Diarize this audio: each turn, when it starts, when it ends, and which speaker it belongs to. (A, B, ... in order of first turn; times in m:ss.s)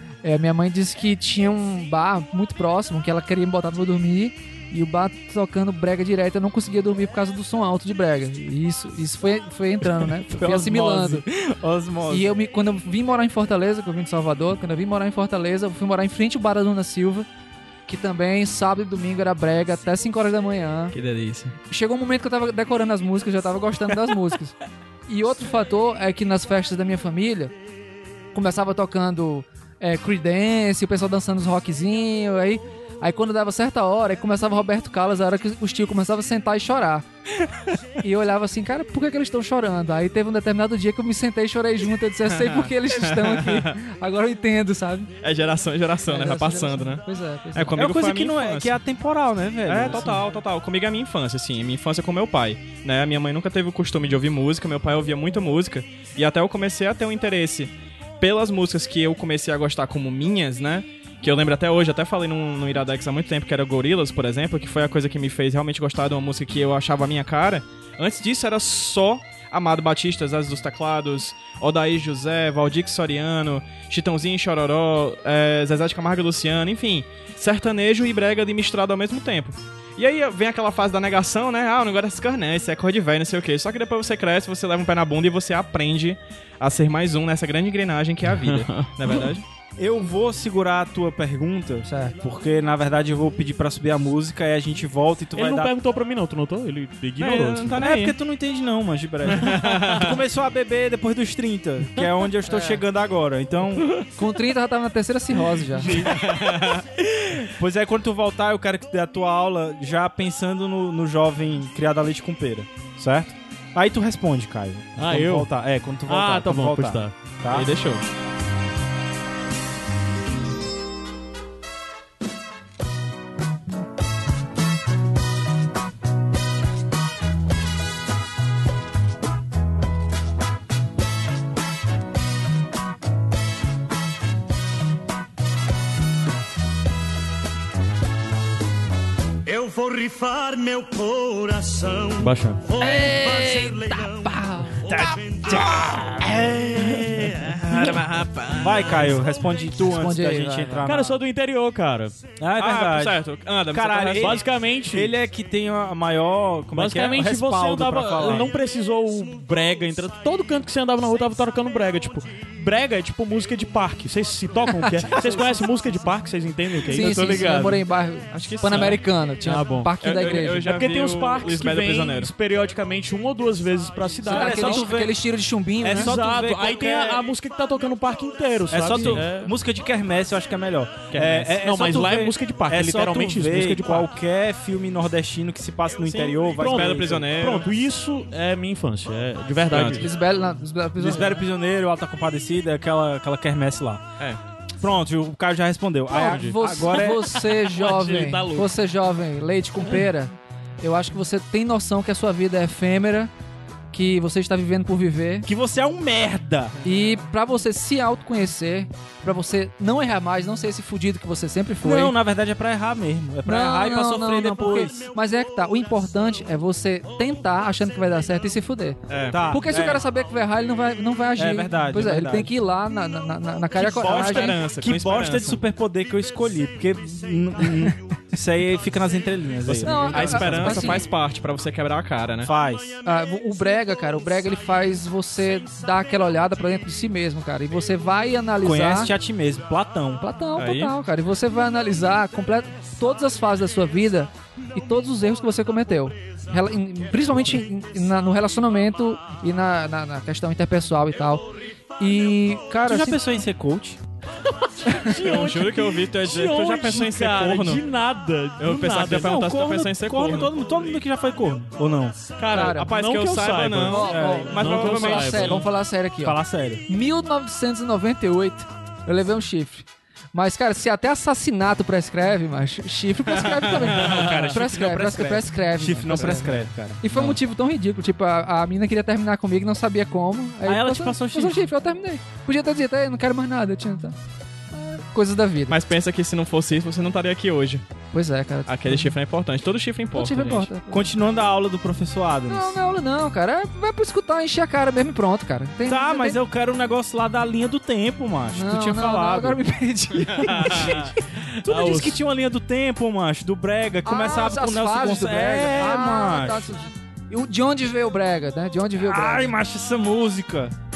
0:00.2-0:11.2 A
0:10.3-0:12.4 B
0:12.1-0:17.3 A
0:17.9-0:21.0 A
0:20.9-0:21.6 C
0:21.7-0:24.6 A
0:25.1-0:27.5 A
0:28.3-0:37.1 A
0:38.0-0:45.1 A
0:42.2-0:43.8 C
0:45.2-0:48.7 C
0:46.1-0:47.8 A
0:47.8-0:50.2 B
0:49.7-1:29.4 C
1:28.5-1:29.1 D
1:29.8-1:35.7 B
1:31.9-1:32.2 A
1:35.4-1:37.8 D
1:37.2-1:38.2 C
1:37.8-1:43.9 B
1:39.3-1:40.2 C
1:42.5-1:42.8 A
1:44.2-1:46.0 A
1:45.9-1:46.9 C
1:47.3-1:57.7 B
1:55.0-1:55.5 D
1:56.1-1:57.1 D
1:57.5-1:58.0 C
2:19.5-2:25.7 E
2:22.2-2:22.6 D
2:22.8-2:24.8 A
2:24.8-2:31.2 B
2:27.4-2:29.2 C
2:29.8-2:30.9 A
2:30.8-2:32.2 D
2:32.4-2:38.5 B
2:32.6-2:34.4 C
2:34.2-2:35.1 D
2:36.7-2:47.8 D
2:45.0-2:45.4 A
2:46.8-2:50.7 A
2:48.3-2:49.0 C
2:48.7-2:49.9 D
2:50.0-2:52.3 C
2:50.6-2:54.9 D
2:54.3-2:55.2 B
2:54.3-2:56.1 A
2:55.8-2:57.2 B
2:55.9-2:59.5 D
2:58.7-3:07.3 B
3:01.1-3:01.5 C
3:01.6-3:04.1 D
3:06.1-3:07.7 C
3:06.6-3:10.1 D
3:09.7-3:10.0 C
3:10.0-3:11.4 A
3:11.0-3:14.0 B
3:14.8-3:17.4 B
3:16.1-3:23.3 A
3:16.2-3:17.0 D
3:17.6-3:18.7 D
3:23.9-3:25.5 A
3:25.4-3:26.8 B
3:26.8-3:32.1 A
3:31.8-3:35.1 B
3:33.4-3:44.6 A
3:39.1-3:39.4 C
3:39.3-3:40.0 B
3:41.4-3:42.5 B
3:43.8-3:45.6 C
3:43.8-3:51.0 B
3:49.7-3:52.5 C
3:49.8-3:51.0 A
3:52.4-3:53.0 B
3:53.0-3:59.1 A
3:58.6-4:00.2 B
4:00.2-4:11.5 A
4:00.6-4:00.9 C
4:12.0-4:13.2 A
4:12.8-4:14.0 B
4:14.6-4:19.4 D
4:15.1-4:17.8 C
4:18.6-4:20.5 C
4:19.1-4:22.2 B
4:22.4-4:25.7 D
4:22.5-4:22.9 A
4:22.6-4:25.7 C
4:23.9-4:44.2 A
4:24.0-4:24.8 B
4:26.2-4:26.8 B
4:33.3-4:34.6 C
4:33.9-4:37.4 B
4:40.6-4:41.7 B
4:44.7-4:45.8 A
4:45.7-4:47.8 C
4:48.1-4:49.1 A
4:48.7-4:50.7 C
4:50.1-4:51.0 A
4:50.9-4:52.8 B
4:52.5-4:56.4 A
4:55.9-4:59.6 B
4:58.5-5:01.1 A
5:00.3-5:01.1 C
5:00.4-5:01.1 B
5:01.6-5:06.8 B
5:01.6-5:02.2 D
5:04.0-5:09.5 A
5:09.0-5:10.8 B